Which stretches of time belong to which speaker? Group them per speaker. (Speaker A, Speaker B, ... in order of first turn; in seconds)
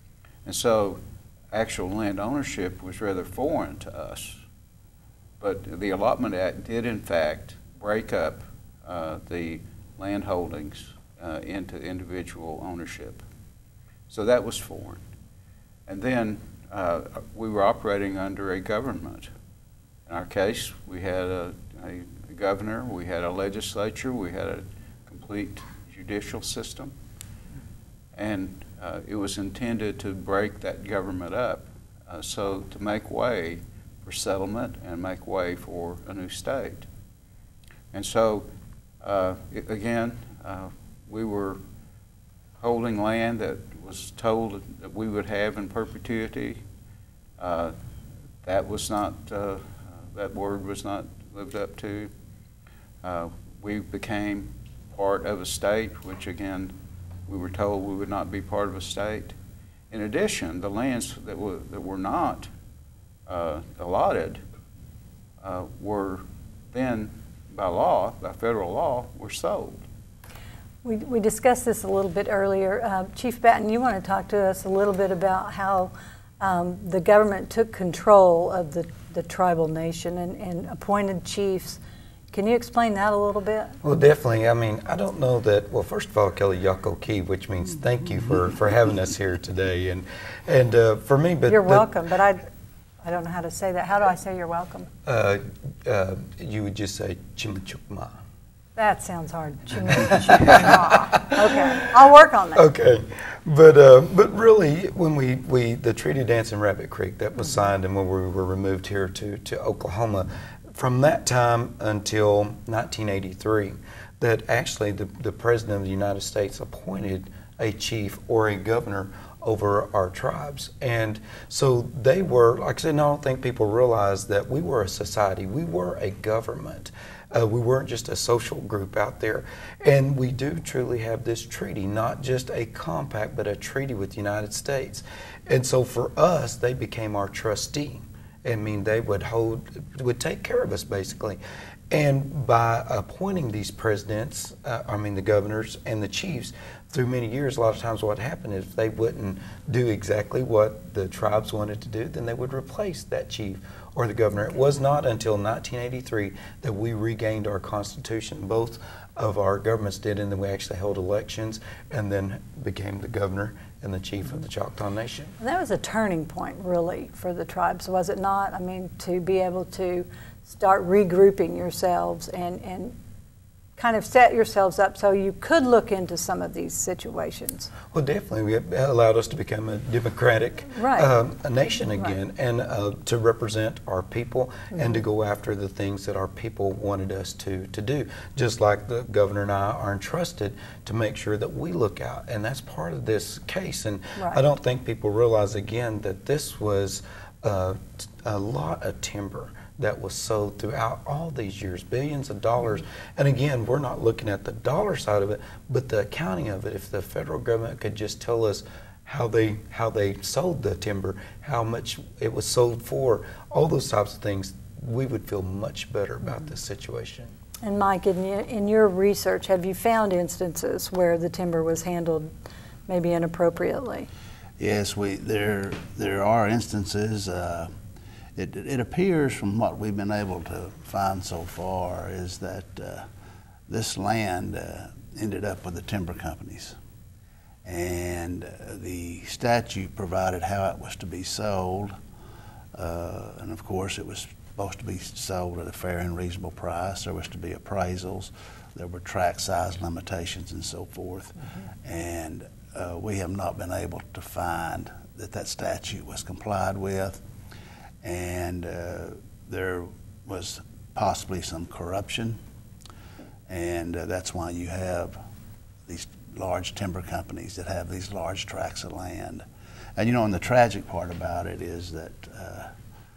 Speaker A: 0.4-1.0, 1.5-4.4, 5.4-13.2, 14.1-15.0, 15.9-19.3, 20.1-26.9, 28.1-36.9, 37.9-38.5, 39.0-41.6, 42.6-46.6, 47.4-47.7, 48.4-52.1, 53.0-56.8, 57.3-59.3, 59.9-62.5, 63.3-64.4, 65.4-69.8
Speaker B: 70.8-81.8, 82.3-83.8, 91.5-92.5, 93.0-94.9, 98.8-102.7, 165.4-172.9, 173.8-177.7, 180.8-181.1, 184.7-185.0, 194.2-194.4, 217.6-222.3, 222.9-224.1
Speaker C: 83.8-91.9, 95.0-98.2, 99.9-101.4, 102.5-141.4, 141.9-165.3, 177.9-217.3
Speaker D: 224.6-227.7, 228.3-233.0, 233.7-236.8, 237.6-241.9, 242.7-257.2, 258.0-262.4, 263.5-265.2, 265.9-269.4, 270.0-272.7